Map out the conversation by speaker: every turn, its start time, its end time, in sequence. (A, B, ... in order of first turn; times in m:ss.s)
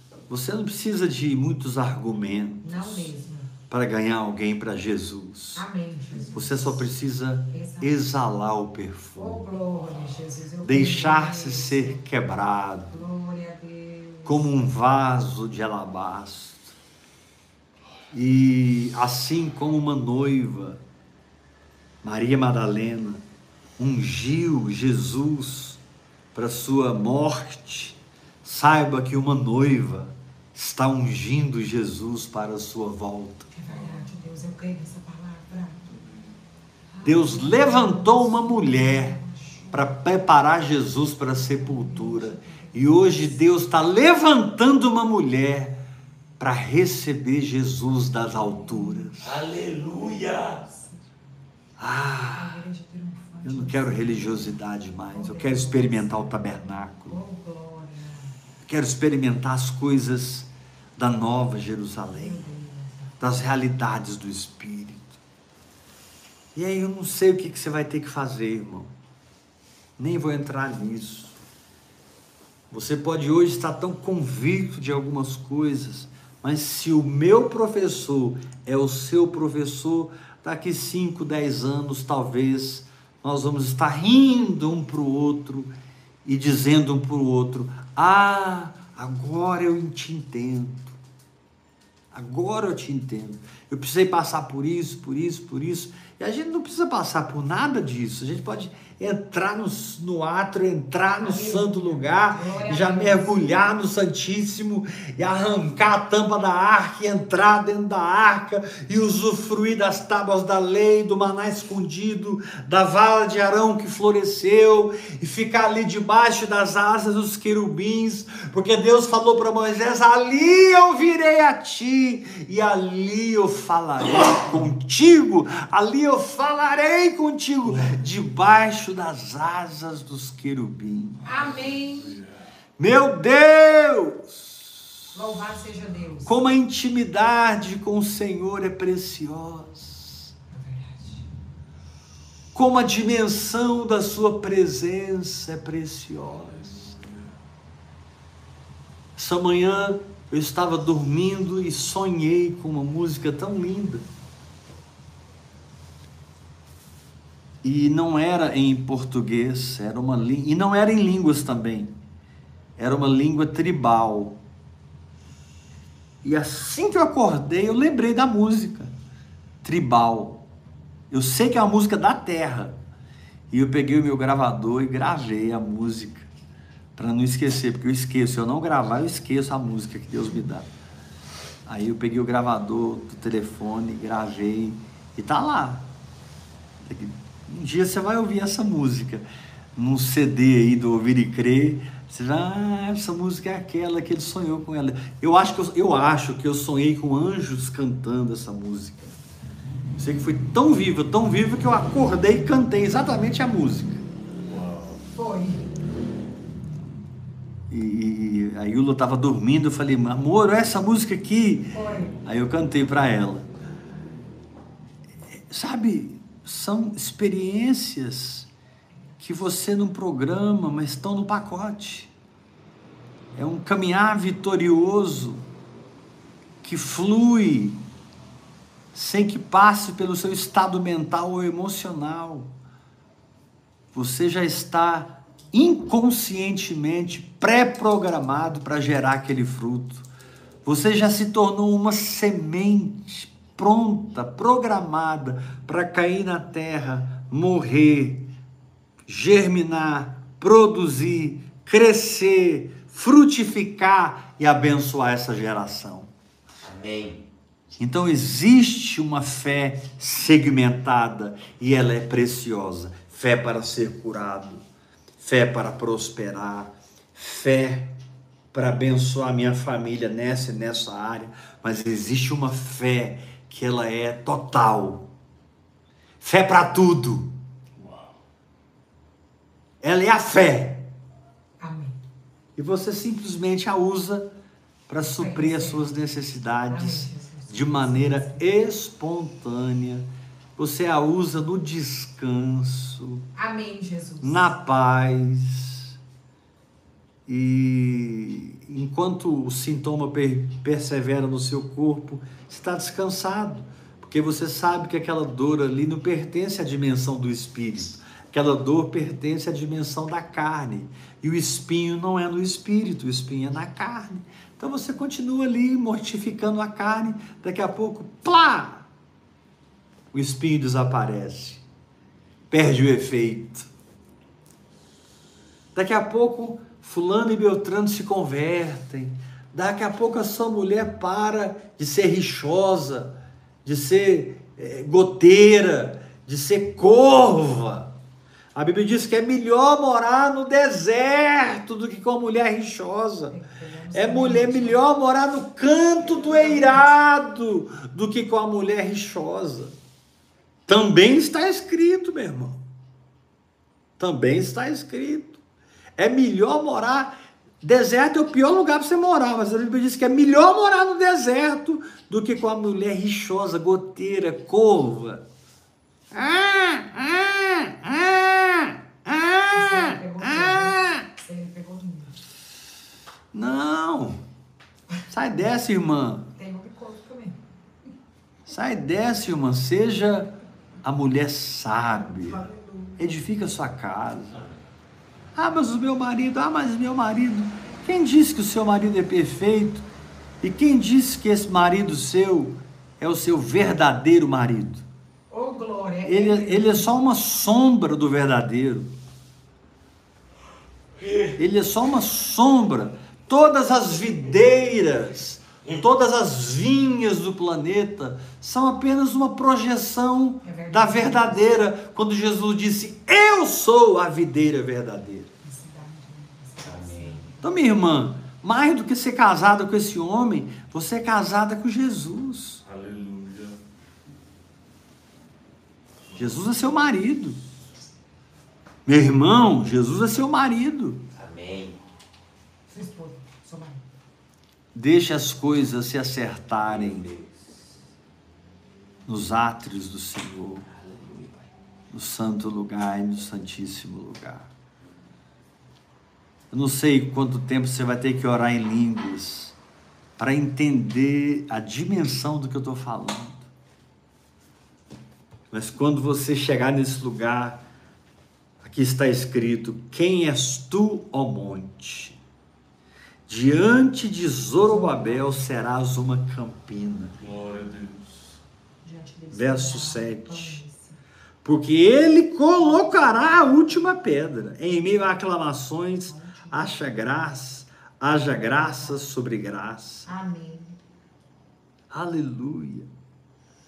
0:00.3-0:03.1 A
0:02.6-0:03.5 B
0:03.7-0:05.6 A
0:05.6-0:06.9 B
0:06.3-0:09.4 A
0:07.5-0:07.9 B
0:09.2-0:12.0 B
0:10.6-0:13.1 A
0:12.9-0:14.5 B
0:14.2-0:16.7 A
0:18.1-0:20.8 A
0:22.0-0:23.2 A
0:23.8-0:25.8 A
0:26.3-0:33.5 A
0:33.5-0:35.8 B
0:35.8-0:36.4 C
0:36.9-0:39.9 B
0:37.0-0:39.2 A
0:39.7-0:45.8 A
0:41.2-0:43.4 B
0:46.4-0:49.4 A
0:48.4-0:49.1 B
0:49.2-0:50.6 D
0:49.8-0:51.0 B
0:51.8-0:52.6 A
0:52.3-0:54.6 B
0:53.4-0:57.2 A
0:55.1-0:56.2 B
0:57.1-0:58.3 B
0:58.6-1:02.4 A
1:02.1-1:03.2 B
1:03.2-1:05.2 A
1:06.5-1:08.9 A
1:10.0-1:11.4 A
1:12.7-1:25.7 A
1:26.2-1:31.0 A
1:32.1-2:11.3 A
1:41.2-1:43.6 B
2:07.7-2:08.0 C
2:11.2-2:12.4 C
2:11.2-2:12.2 B
2:12.8-2:14.8 A
2:15.1-2:16.3 B
2:16.2-2:20.3 A
2:20.5-2:21.2 B
2:22.5-2:26.9 A
2:26.5-2:27.3 C
2:29.2-2:34.0 A
2:37.6-2:41.9 A
2:42.8-2:44.4 A
2:46.2-2:48.9 A
2:49.6-2:50.4 A
2:51.1-2:52.8 A
2:53.5-2:56.3 A
2:57.0-3:00.7 A
3:01.6-3:05.9 A
3:06.8-3:09.2 A
3:09.8-3:19.1 A
3:20.0-3:24.0 A
3:24.4-3:25.0 C
3:25.2-3:25.7 B
3:27.7-3:33.4 A
3:31.7-3:32.1 B
3:35.5-3:38.5 A
3:39.2-3:42.1 A
3:43.3-3:45.4 A
3:46.6-3:47.8 A
3:48.9-3:52.5 A
3:53.9-4:00.1 A
4:00.6-4:08.3 A
4:09.1-4:16.1 A
4:16.6-4:17.2 D
4:17.8-4:24.6 A
4:25.2-4:27.9 A
4:28.5-4:35.1 A
4:36.2-4:37.3 A
4:37.8-4:38.1 C
4:39.8-4:40.9 A
4:41.6-4:42.0 B
4:42.6-4:44.3 A
4:44.9-4:50.0 A
4:45.0-4:45.9 B
4:46.7-4:48.5 B
4:50.6-4:53.2 A
4:53.4-4:54.5 B
4:54.2-4:55.9 A
4:57.3-5:18.8 A
5:20.1-5:21.6 A
5:22.5-5:23.7 A
5:25.7-5:37.9 A
5:38.5-5:43.4 A
5:43.3-5:44.8 B
5:43.9-5:49.7 A
5:46.3-5:46.9 B
5:50.7-5:52.6 A
5:54.0-5:55.4 A
5:56.0-6:05.2 A
6:06.1-6:11.0 A
6:09.5-6:12.2 B
6:13.3-6:14.2 A
6:15.1-6:16.3 A
6:16.4-6:17.4 B
6:18.5-6:20.3 A
6:20.8-6:22.5 A
6:22.3-6:23.0 B
6:23.0-6:24.4 A
6:25.4-6:29.8 A
6:30.4-6:34.8 A
6:35.3-6:36.9 B
6:36.0-6:38.9 A
6:41.4-6:55.3 A
6:50.4-6:51.5 B
6:55.4-6:57.6 B
6:56.6-6:57.2 D
6:57.4-7:02.6 A
7:02.6-7:03.6 C
7:06.1-7:06.3 C
7:06.2-7:07.4 A
7:08.8-7:11.0 A
7:11.1-7:11.8 D
7:12.7-7:13.8 B
7:14.7-7:17.1 A
7:16.6-7:17.7 D
7:19.1-7:20.7 A
7:20.7-7:21.5 D
7:21.9-7:24.5 A
7:26.5-7:29.6 A
7:30.2-7:33.5 A
7:35.5-7:37.6 A
7:38.6-7:42.2 A
7:43.3-7:47.1 A
7:44.6-7:45.4 B
7:47.2-7:48.4 C
7:48.8-7:51.0 B
7:49.3-7:50.6 A
7:51.4-8:00.1 A
7:52.7-7:53.6 B
7:56.1-7:56.7 B
8:00.0-8:00.8 B
8:01.9-8:02.9 A